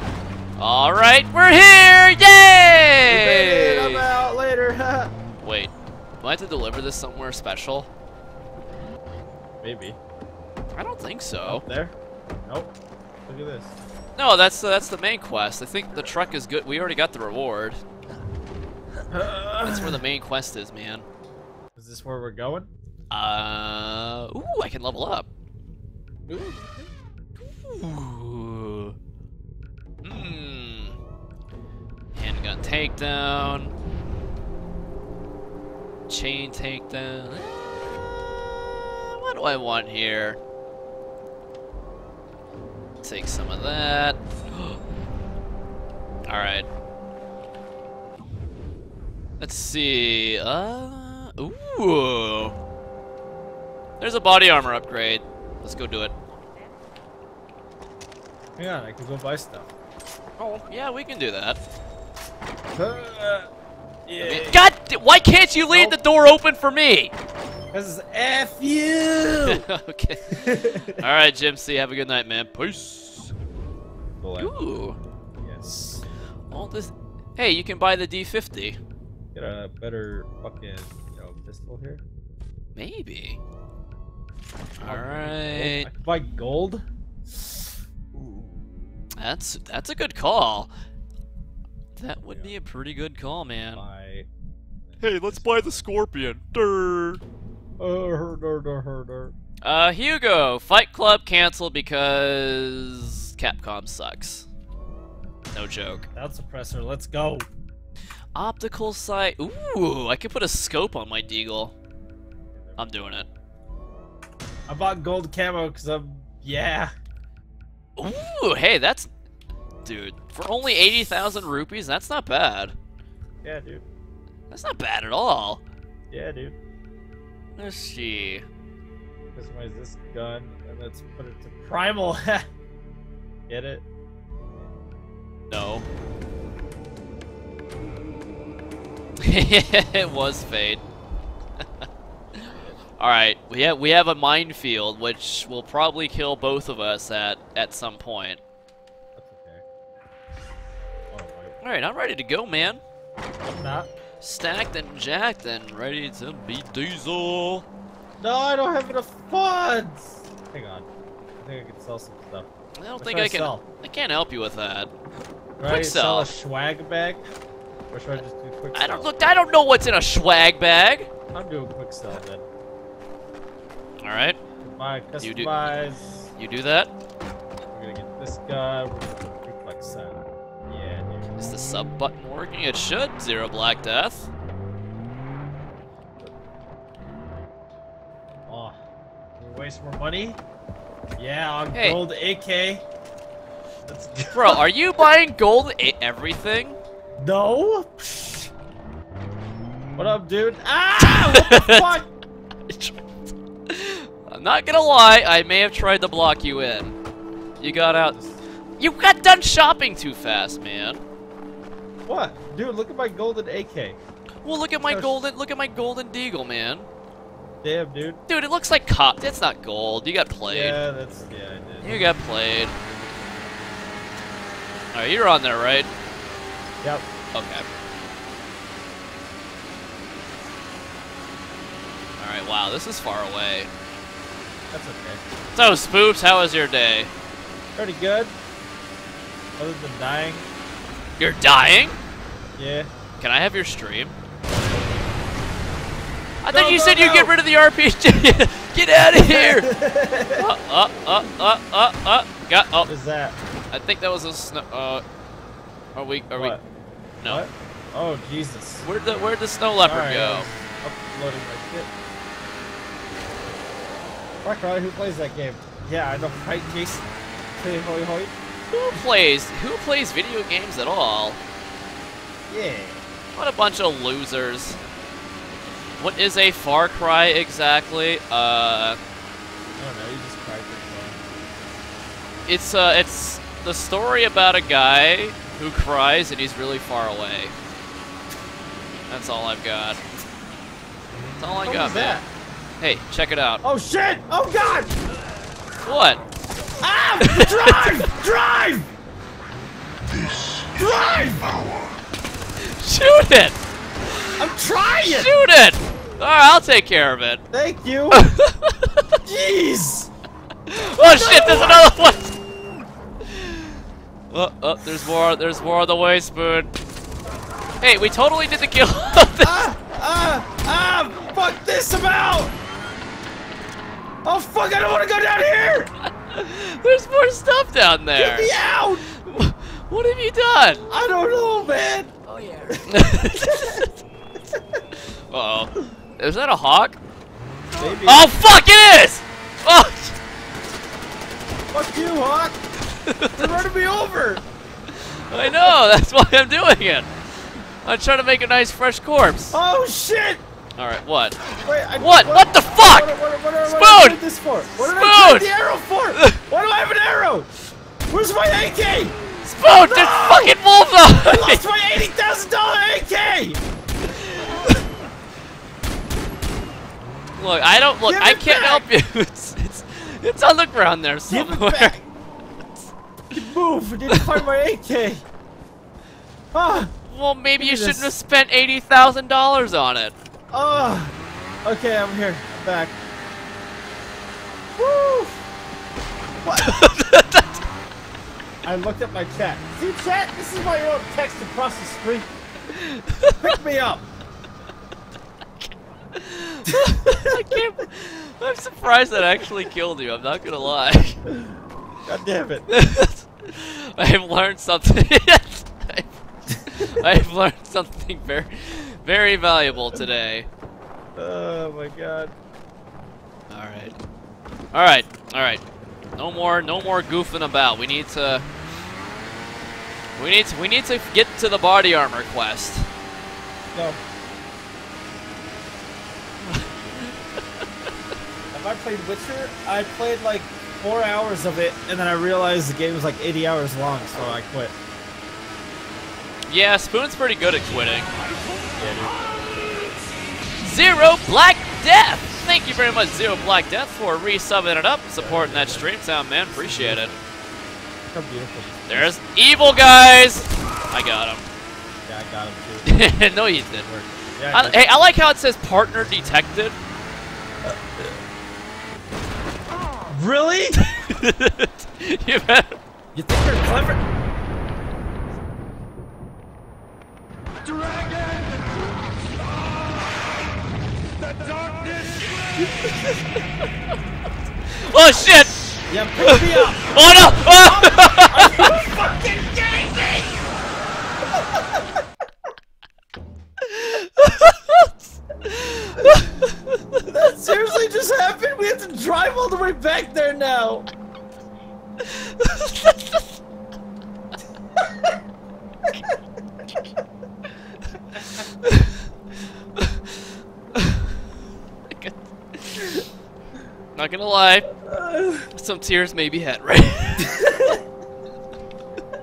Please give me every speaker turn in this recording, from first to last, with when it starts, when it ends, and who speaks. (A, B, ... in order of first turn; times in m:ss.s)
0:00.6-0:04.0 A
0:03.1-0:05.1 B
0:05.4-0:07.9 A
0:09.6-0:10.0 B
0:10.8-0:11.6 A
0:11.4-0:11.9 B
0:12.5-0:12.7 B
0:13.3-0:13.8 B
0:14.2-0:17.8 A
0:19.1-0:20.0 B
0:19.6-0:21.0 A
0:21.8-0:22.7 B
0:23.1-0:25.3 A
0:26.3-0:26.9 B
0:27.4-0:29.0 A
0:30.0-0:31.0 A
0:32.1-0:33.7 A
0:36.1-0:37.8 A
0:38.9-0:40.4 A
0:43.0-0:44.8 A
0:46.3-0:46.7 A
0:49.4-0:52.5 A
0:54.0-0:56.1 A
0:58.6-0:59.7 B
1:00.4-1:01.6 A
1:02.7-1:03.5 B
1:04.1-1:04.6 B
1:04.2-1:07.1 A
1:05.7-1:06.0 B
1:07.7-1:09.6 B
1:09.4-1:13.3 A
1:10.3-1:11.0 B
1:14.2-1:14.5 B
1:14.4-1:15.0 A
1:15.4-1:16.0 B
1:16.5-1:18.8 A
1:19.3-1:22.0 B
1:22.8-1:23.4 A
1:24.8-1:25.9 A
1:24.8-1:28.5 B
1:29.2-1:30.7 A
1:32.0-1:33.8 A
1:32.2-1:32.5 B
1:33.7-1:34.3 B
1:34.8-1:35.8 B
1:35.0-1:37.2 A
1:37.8-1:39.3 B
1:39.6-1:44.5 A
1:45.5-1:46.1 A
1:46.1-1:47.4 B
1:48.3-1:51.7 A
1:52.6-1:52.8 B
1:52.8-1:53.3 A
1:54.7-1:56.9 B
1:58.0-1:59.1 A
1:59.8-2:02.8 A
2:03.4-2:03.8 B
2:04.5-2:05.6 A
2:06.1-2:06.6 B
2:07.6-2:08.4 A
2:09.4-2:12.4 B
2:13.5-2:13.8 B
2:15.5-2:15.9 A
2:19.2-2:20.8 A
2:22.4-2:28.4 A
2:22.5-2:22.8 B
2:29.2-2:29.6 B
2:31.1-2:31.6 B
2:31.6-2:32.8 A
2:33.4-2:33.9 B
2:34.2-2:37.6 A
2:38.2-2:40.9 B
2:41.4-2:42.5 B
2:42.8-2:44.9 A
2:43.0-2:43.6 B
2:45.6-2:47.3 B
2:45.6-2:46.3 A
2:47.9-2:49.1 B
2:48.7-2:51.1 A
2:51.3-2:52.4 B
2:54.0-2:54.4 A
2:54.6-2:56.3 B
2:55.2-2:55.5 A
2:56.4-2:56.9 A
2:57.7-3:01.3 B
3:01.4-3:04.3 A
3:08.5-3:08.8 B
3:09.4-3:10.4 B
3:11.2-3:12.8 B
3:11.7-3:12.0 A
3:13.9-3:14.6 B
3:14.3-3:16.8 A
3:17.2-3:18.5 B
3:20.0-3:22.1 B
3:21.0-3:22.0 A
3:22.7-3:23.0 A
3:23.7-3:27.0 A
3:27.6-3:28.2 A
3:28.1-3:28.4 B
3:28.8-3:31.0 A
3:32.1-3:34.0 B
3:34.4-3:36.9 A
3:34.8-3:35.2 B
3:37.6-3:38.2 B
3:38.3-3:40.8 A
3:40.5-3:42.1 B
3:41.8-3:42.7 A
3:44.9-3:45.9 A
3:47.3-3:47.6 A
3:52.2-3:53.7 A
3:54.7-3:55.2 B
3:55.5-3:57.1 A
3:57.8-3:58.4 B
3:59.6-4:00.5 B
4:01.2-4:02.0 A
4:02.6-4:02.9 B
4:03.2-4:04.1 A
4:06.4-4:09.7 A
4:06.5-4:07.4 B
4:09.1-4:10.4 B
4:10.4-4:12.9 A
4:12.9-4:13.4 B
4:13.7-4:15.0 A
4:15.9-4:16.6 A
4:16.4-4:16.6 B
4:17.2-4:18.9 B
4:18.8-4:20.5 A
4:19.8-4:21.9 B
4:24.4-4:27.1 B
4:27.6-4:28.4 B
4:28.7-4:31.4 A
4:32.5-4:33.0 B
4:33.4-4:34.8 A
4:36.0-4:39.0 A
4:39.8-4:41.2 B
4:42.5-4:47.5 A
4:49.1-4:50.0 A
4:51.4-4:52.2 A
4:51.6-4:52.2 B
4:52.8-4:53.6 A
4:53.6-4:55.0 B
4:55.8-4:56.2 A
4:56.8-4:58.9 B
4:57.2-4:58.1 A
5:00.8-5:01.5 B
5:02.6-5:03.6 A
5:04.4-5:05.3 B
5:05.0-5:07.4 A
5:07.5-5:08.3 B
5:08.1-5:09.2 A
5:09.2-5:10.1 B
5:10.7-5:12.4 A
5:11.0-5:11.9 B
5:13.2-5:16.7 A
5:17.8-5:19.7 A
5:19.4-5:22.5 B
5:24.2-5:25.9 B
5:26.1-5:28.5 A
5:28.2-5:29.1 B
5:29.1-5:30.9 A
5:30.9-5:32.1 B
5:32.7-5:33.9 B
5:32.8-5:33.9 A
5:35.3-5:37.0 A
5:37.8-5:38.3 B
5:38.0-5:40.2 A
5:41.7-5:42.6 B
5:43.0-5:43.6 A
5:43.4-5:44.4 B
5:45.3-5:47.1 A
5:45.3-5:45.7 B
5:47.8-5:49.6 A
5:49.5-5:50.4 B
5:50.8-5:51.4 A
5:51.6-5:57.5 B
5:52.0-5:53.1 A
5:53.6-5:54.2 A
5:54.8-5:55.5 A
5:58.1-6:03.6 B
5:59.4-6:01.6 A
6:04.1-6:04.8 A
6:07.4-6:11.9 A
6:08.0-6:08.9 B
6:11.3-6:12.1 B
6:13.3-6:15.2 B
6:16.5-6:16.9 B
6:17.1-6:20.1 A
6:17.6-6:18.1 B
6:20.5-6:21.1 B
6:21.6-6:23.0 B
6:24.8-6:25.4 B
6:26.4-6:26.7 B
6:26.6-6:27.6 A
6:28.6-6:32.3 B
6:32.7-6:33.6 A
6:33.4-6:34.1 B
6:36.1-6:41.2 A
6:36.7-6:37.3 B
6:41.3-6:41.5 B
6:42.1-6:42.7 B
6:42.7-6:50.5 A
6:51.1-6:52.3 B
6:53.5-6:54.0 A
6:54.7-6:55.6 A
6:56.2-6:58.4 A
7:00.2-7:02.9 A
7:03.7-7:04.0 B
7:06.4-7:07.4 A
7:08.5-7:14.7 B
7:16.5-7:18.1 A
7:18.7-7:19.3 B
7:20.6-7:27.1 A
7:25.2-7:25.9 B
7:26.5-7:27.2 B
7:28.1-7:29.1 B
7:28.9-7:31.4 A
7:32.1-7:34.8 B
7:32.9-7:33.9 A
7:34.5-7:36.8 A
7:37.6-7:38.2 B
7:40.1-7:40.8 B
7:40.8-7:42.8 A
7:43.1-7:44.0 B
7:52.8-7:53.4 A
7:54.7-7:55.6 A
7:55.9-8:00.3 B
7:56.2-7:58.7 A
8:01.4-8:01.8 B
8:03.6-8:07.0 A
8:07.0-8:10.9 B
8:12.0-8:13.2 A
8:18.6-8:19.0 A
8:19.8-8:20.1 A
8:20.7-8:21.1 A
8:21.9-8:23.0 A
8:23.9-8:24.7 A
8:24.7-8:25.5 B
8:25.5-8:27.4 A
8:27.2-8:27.8 B